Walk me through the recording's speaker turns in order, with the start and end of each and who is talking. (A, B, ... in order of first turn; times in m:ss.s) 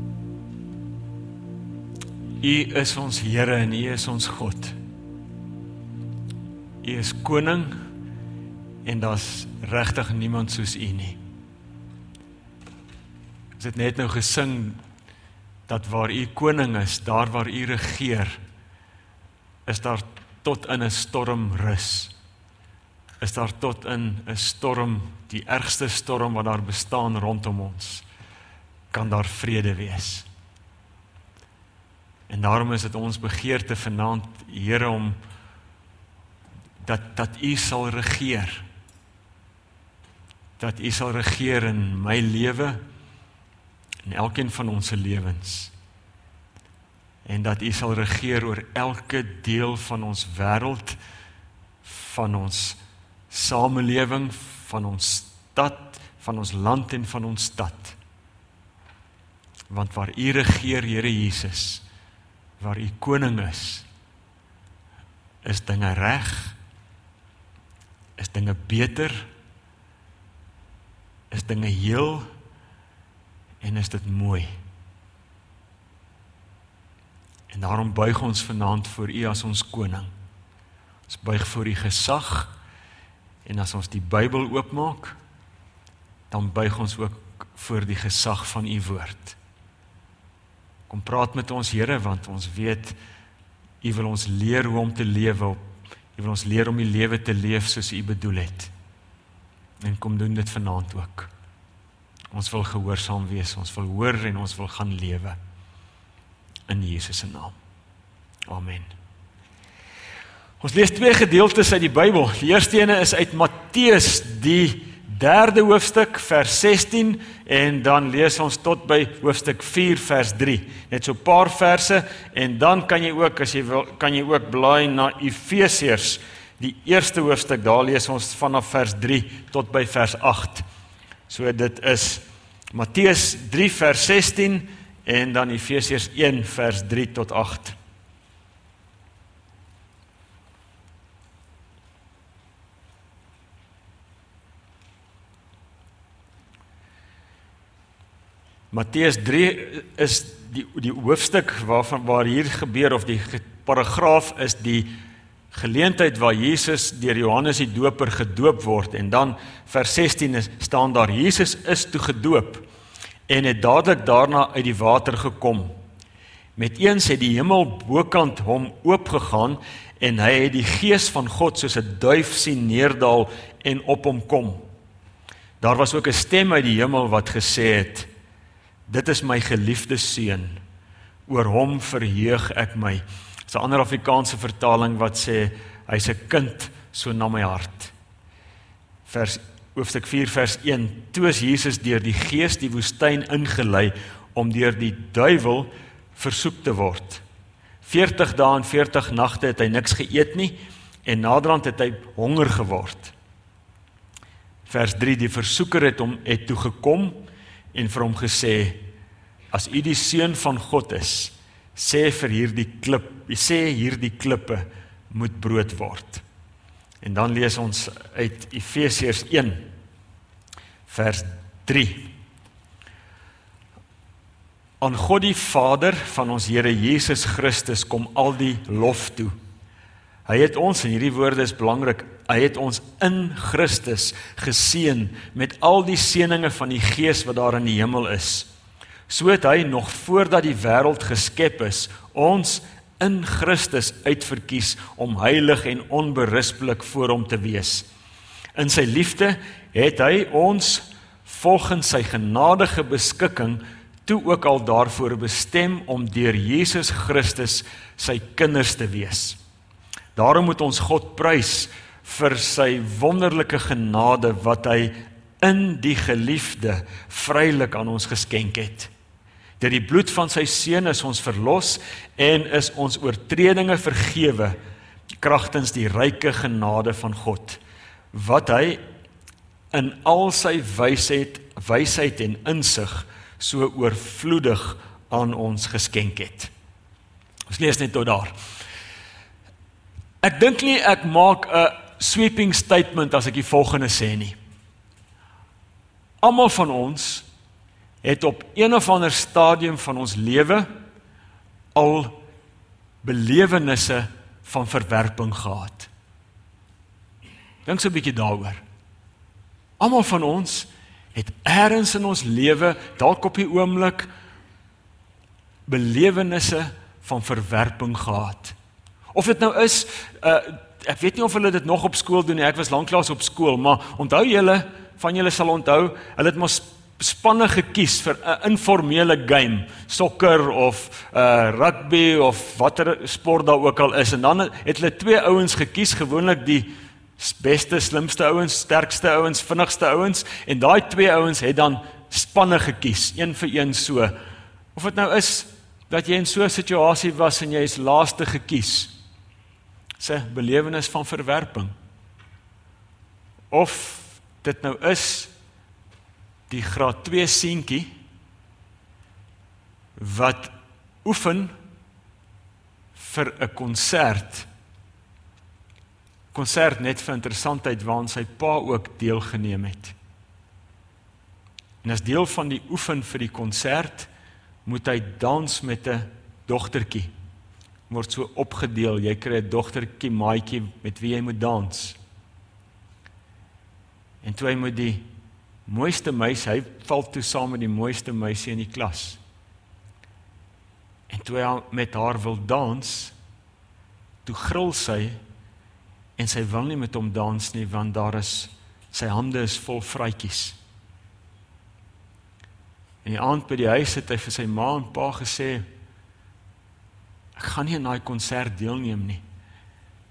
0:02.4-0:04.8 A
0:06.8-0:07.8 A
0:08.8-0:11.2 A
0:13.6-0:14.8 A
0:15.7-0:18.4 A
0:19.6-0:22.1 A
0:23.2-0:28.0 A
0:28.9-0:30.3 A
0:32.3-0:35.2 A
0:36.8-0:38.6 A
0:40.6-0:42.8 A
0:44.0-0:45.7 A
0:47.2-0:51.0 A
0:51.8-0:52.8 A
0:53.3-0:58.0 A
0:59.7-1:01.8 A
1:02.6-1:03.8 A
1:05.4-1:06.6 A
1:08.2-1:09.3 A
1:11.3-1:12.3 A
1:13.6-1:14.5 A
1:17.5-1:20.1 A
1:21.1-1:22.5 A
1:23.4-1:25.2 A
1:26.3-1:29.4 A
1:30.9-1:33.0 A
1:33.8-1:35.6 A
1:36.2-1:38.7 A
1:39.8-1:41.3 A
1:42.3-1:45.4 A
1:46.7-1:47.6 A
1:48.5-1:48.9 A
1:50.6-2:10.6 A
2:11.3-2:17.8 A
2:28.7-2:34.9 A
2:35.5-2:42.6 A
2:43.3-2:45.7 A
2:46.6-2:54.6 A
2:55.6-2:58.1 A
2:58.9-3:00.6 A
3:01.3-3:07.9 A
3:09.0-3:17.2 A
3:17.8-3:23.1 A
3:24.6-3:28.8 A
3:29.5-3:36.2 A
3:37.0-3:39.7 A
3:40.9-3:42.1 A
3:44.8-3:49.3 A
3:50.2-3:58.5 A
3:59.1-4:07.9 A
4:08.5-4:19.4 A
4:20.1-4:28.9 A
4:29.6-4:34.6 A
4:35.2-4:37.6 A
4:38.1-4:38.8 A
4:39.7-4:46.5 A
4:47.5-4:48.3 A
4:50.2-4:54.3 A
4:56.2-4:57.2 A
4:58.0-5:00.7 A
5:01.7-5:02.2 A
5:03.0-5:05.9 A
5:07.6-5:08.6 A
5:09.8-5:14.1 A
5:15.7-5:18.6 A
5:19.1-5:44.2 A
5:44.7-5:48.9 A
5:50.0-5:51.7 A
5:53.5-5:55.3 A
5:56.5-5:57.9 A
6:00.0-6:01.5 A
6:02.9-6:04.5 A
6:06.3-6:09.9 A
6:11.8-6:14.1 A
6:14.6-6:17.1 A
6:17.9-6:22.0 A
6:24.2-6:25.0 A
6:25.6-6:29.2 A
6:31.1-6:33.1 A
6:34.2-6:35.2 A
6:36.2-6:40.6 A
6:43.0-6:45.6 A
6:47.4-6:49.2 A